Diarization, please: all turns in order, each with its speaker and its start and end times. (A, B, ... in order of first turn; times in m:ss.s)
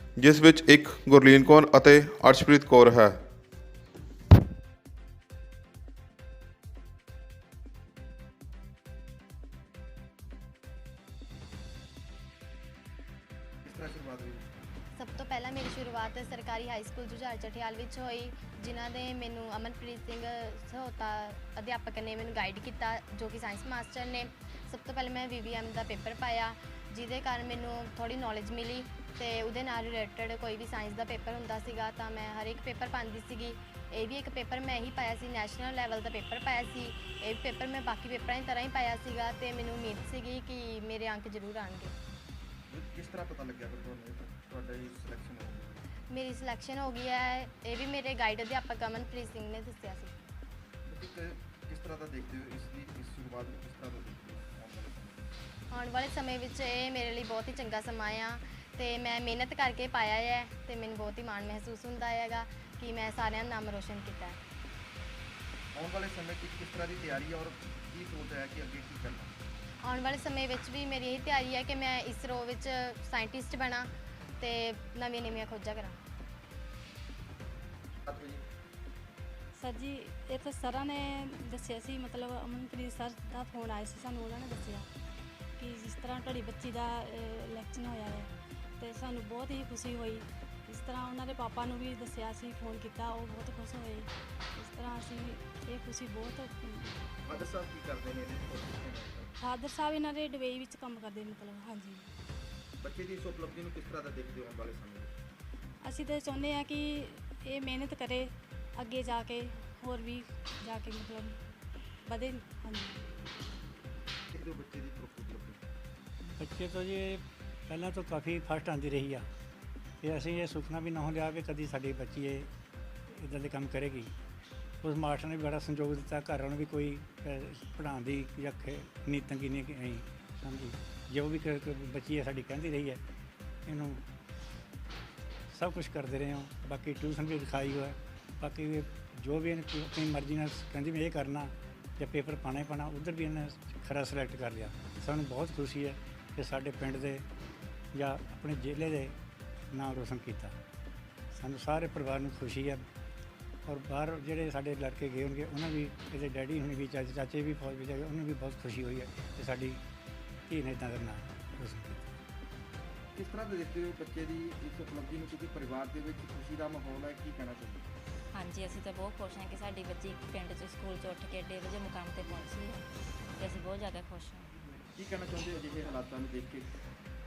0:00.2-0:03.2 A
0:13.6-0:14.4 B
0:15.0-0:41.9 C
0:42.7-0:45.8 B
0:46.1-0:50.1 C
0:50.9-0:55.3 B
0:55.7-1:04.4 C
1:05.8-1:09.3 B
1:09.8-1:16.0 C
1:18.1-1:18.4 B
1:19.6-1:24.9 D
1:25.6-1:36.9 D
1:37.2-1:39.3 B
1:39.4-1:42.1 D
1:42.8-1:45.1 B
1:45.8-1:51.4 D
1:52.1-1:53.0 D
1:54.3-1:55.7 B
1:56.4-1:59.2 E
2:00.0-2:02.5 E
2:03.1-2:04.1 E
2:04.8-2:13.0 E
2:13.7-2:14.0 E
2:15.5-2:27.3 E
2:27.9-2:29.2 E
2:29.7-2:30.6 E
2:31.3-2:32.9 E
2:33.7-2:39.8 E
2:40.5-2:42.1 E
2:43.2-2:47.9 B
2:48.3-2:54.5 F
2:55.0-2:56.8 B